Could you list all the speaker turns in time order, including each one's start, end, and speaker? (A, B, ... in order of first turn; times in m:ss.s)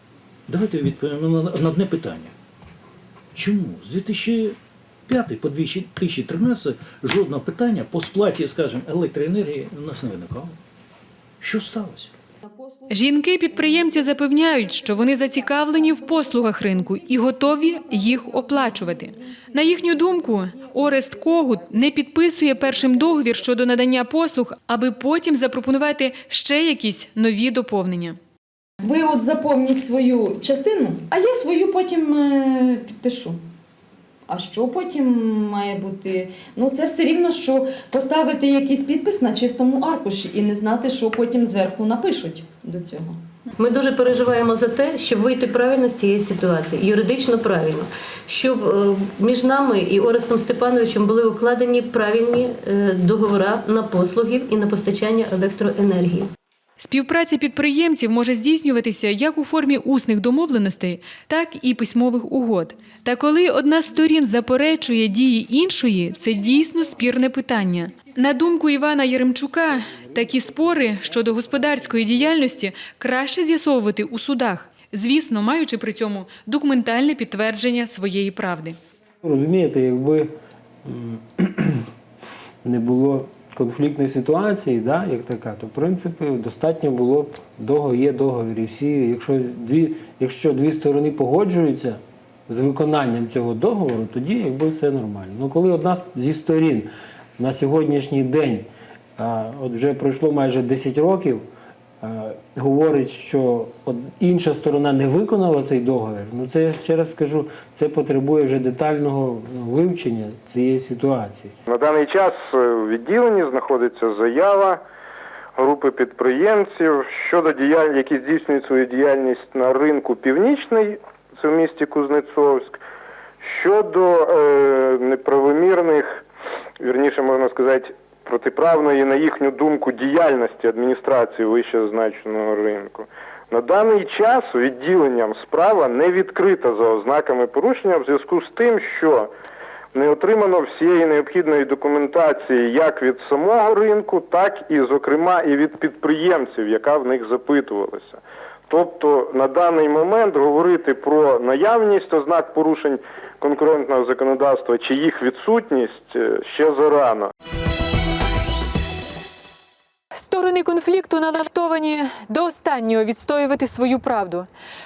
0:00.5-0:02.3 A
0:03.3-0:04.6 A
0:05.1-0:10.6 A
0:11.4-0:12.1 A
0:12.9-0:28.2 B
0:28.8-0:33.4 C
0:34.3-0:43.2 C
0:43.6-0:56.3 D
0:56.8-1:18.8 B
1:19.2-1:21.9 E
1:22.6-1:41.4 E
1:42.0-1:51.6 E
1:51.7-1:54.8 F
1:55.6-2:02.8 F
2:03.4-2:06.2 F
2:06.8-2:19.3 F
2:19.9-2:37.3 F
2:40.1-2:44.5 B